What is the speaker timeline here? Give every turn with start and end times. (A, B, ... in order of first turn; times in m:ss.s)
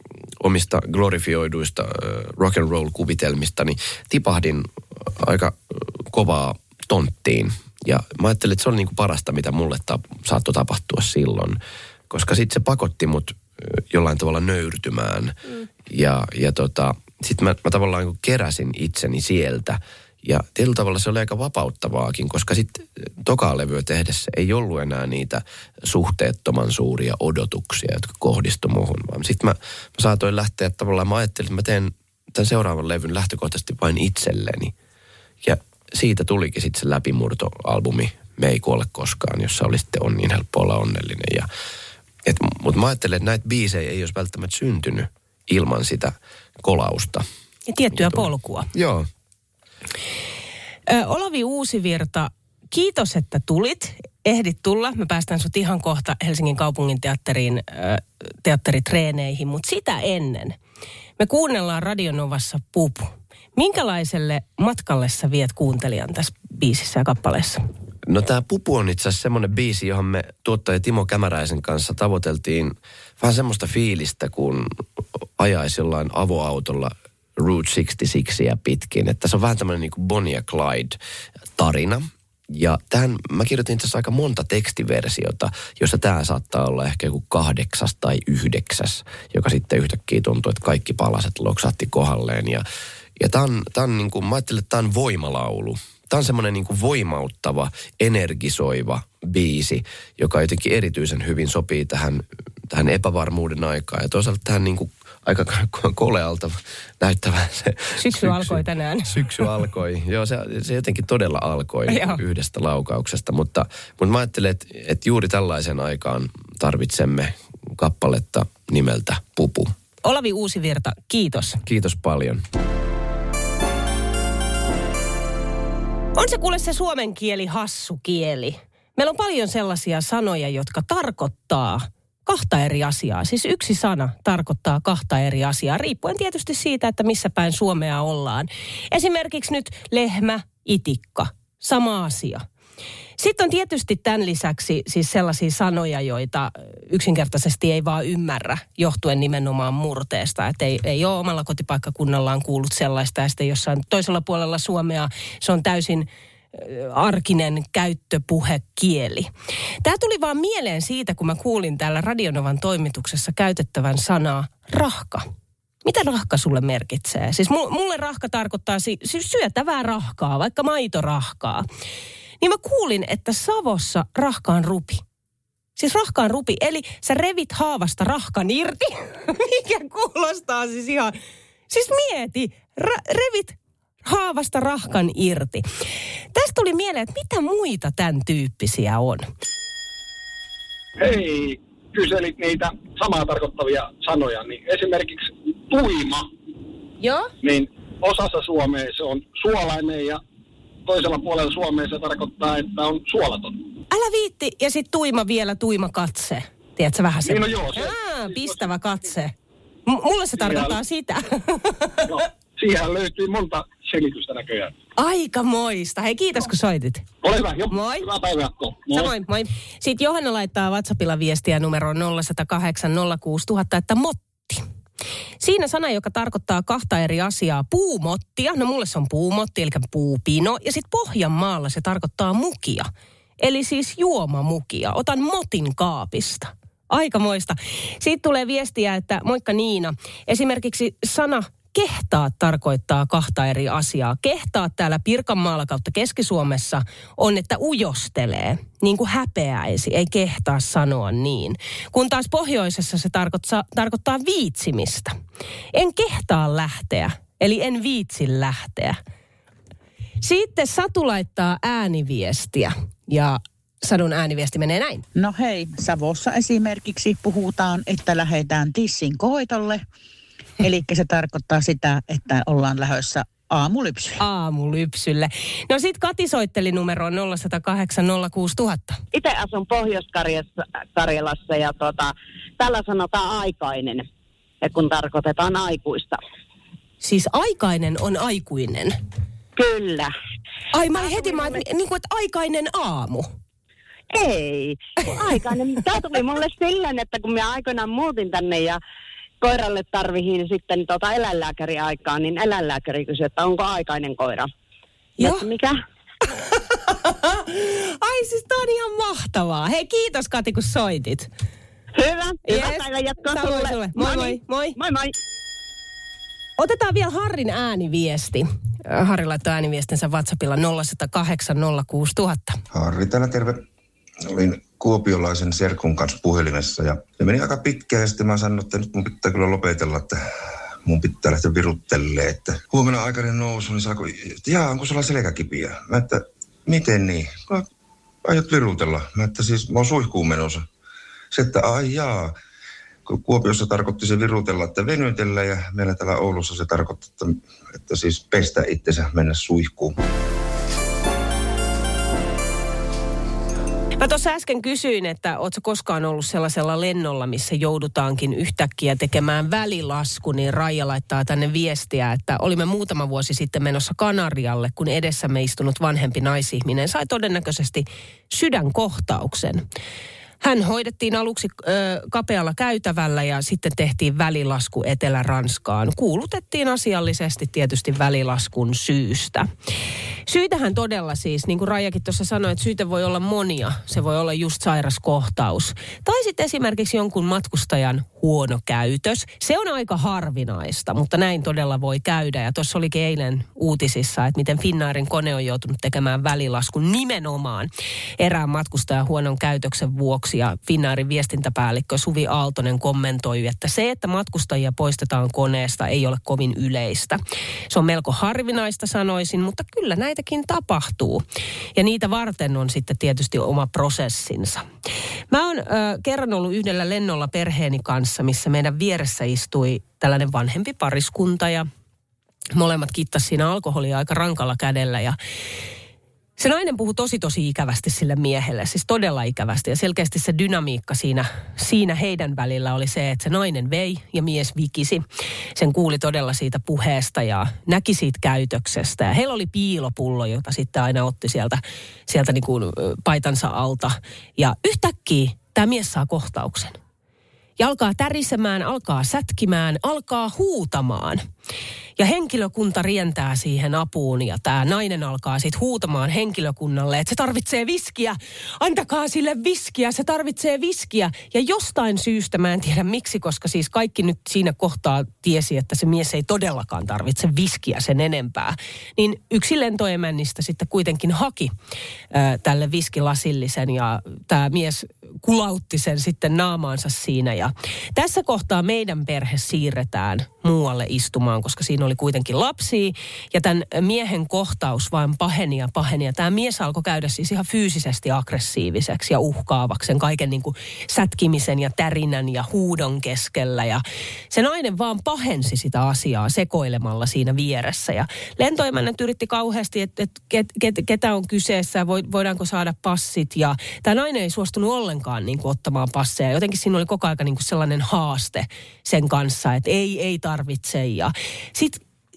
0:00.4-0:11.6 A
0:12.1-0:34.7 A
0:35.4-0:41.5 A
0:42.2-0:47.2 A
0:47.7-0:48.7 B
0:48.0-0:49.1 A
0:50.9-1:00.6 B
1:01.2-1:07.6 B
1:08.1-1:21.0 A
1:21.6-1:32.6 A
1:33.2-1:59.7 A
1:48.0-1:49.5 B
1:51.9-1:52.2 B
2:00.0-2:01.6 B
2:01.7-2:02.4 A
2:06.2-2:22.4 B
2:23.2-2:39.3 B
2:39.8-2:45.3 B
2:45.8-2:51.6 B
2:52.4-2:55.0 B
2:55.8-3:01.1 B
3:01.7-3:05.6 B
3:06.3-3:09.3 B
3:11.0-3:16.3 C
3:17.0-3:17.3 B
3:17.4-3:20.2 C
3:20.9-3:23.6 C
3:23.9-3:29.3 B
3:27.2-3:28.6 C
3:29.9-3:32.1 B
3:30.4-3:30.8 C
3:32.0-3:34.7 C
3:35.0-3:37.1 B
3:37.2-3:39.1 C
3:37.7-3:38.1 B
3:38.9-3:44.6 B
3:45.4-3:52.9 B
3:53.4-4:15.1 B
4:15.7-4:19.0 B
4:20.2-4:25.0 B
4:25.2-4:29.8 D
4:30.6-4:34.2 D
4:34.2-4:39.0 B
4:39.1-4:44.0 E
4:44.6-4:46.2 E
4:47.0-4:49.0 B
4:49.6-4:50.1 E
4:50.7-4:53.3 B
4:50.9-4:51.6 E
4:54.1-4:58.8 E
4:59.4-5:04.5 E
5:05.2-5:05.5 B
5:05.2-5:05.8 E
5:06.8-5:11.3 B
5:12.0-5:15.1 E
5:12.5-5:14.7 B
5:16.6-5:22.6 B
5:22.7-5:23.6 F
5:24.3-5:30.2 F
5:30.9-5:37.7 F
5:38.2-5:40.7 F
5:41.3-5:42.4 F
5:43.1-5:50.0 F
5:54.0-6:09.6 B
6:10.4-6:19.5 B
6:20.3-6:51.2 B
6:51.8-6:54.6 B
6:55.3-7:01.7 B
7:02.5-7:05.2 B
7:06.4-7:15.0 B
7:15.6-7:26.8 B
7:27.6-7:31.2 B
7:32.0-7:51.5 B
7:52.1-8:31.8 B